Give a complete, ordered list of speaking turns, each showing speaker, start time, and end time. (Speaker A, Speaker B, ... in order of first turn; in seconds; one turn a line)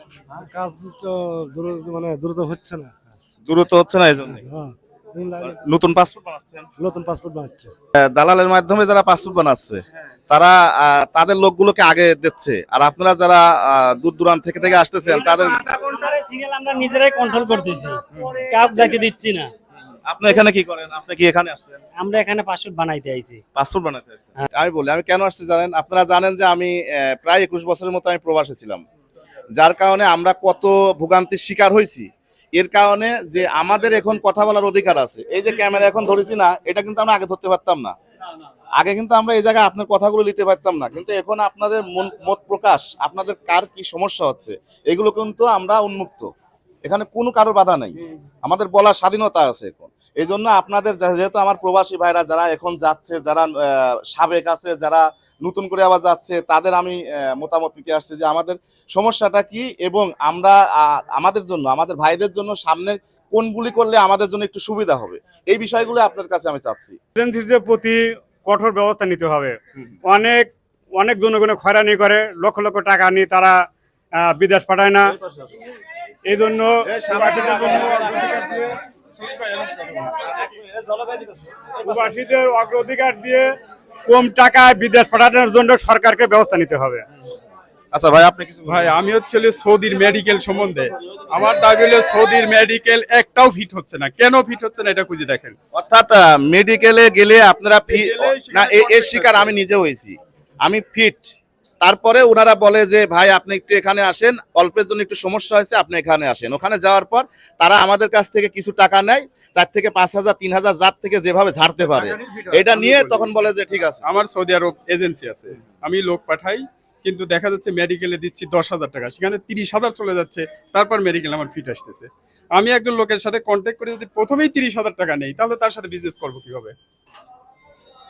Speaker A: 0.3-3.1
Speaker B: 3.5-4.5
Speaker A: 4.3-5.6
Speaker B: 5.4-6.7
Speaker A: 6.8-7.7
Speaker B: 8.0-15.7
Speaker C: 15.2-19.5
Speaker B: 18.1-18.4
Speaker B: 20.1-21.8
Speaker C: 22.0-23.4
Speaker B: 23.6-28.8
Speaker B: 29.6-38.0
Speaker B: 38.8-46.3
Speaker B: 46.9-67.0
Speaker D: 67.2-73.6
Speaker D: 74.2-75.1
Speaker B: 75.0-75.5
Speaker D: 76.3-78.8
Speaker B: 76.8-78.5
Speaker E: 79.2-80.0
Speaker B: 79.9-82.0
Speaker D: 81.8-83.5
Speaker D: 84.1-87.0
Speaker B: 87.9-88.9
Speaker E: 88.7-95.6
Speaker B: 95.7-114.0
Speaker E: 97.9-99.6
Speaker E: 111.9-113.3
Speaker E: 114.0-126.8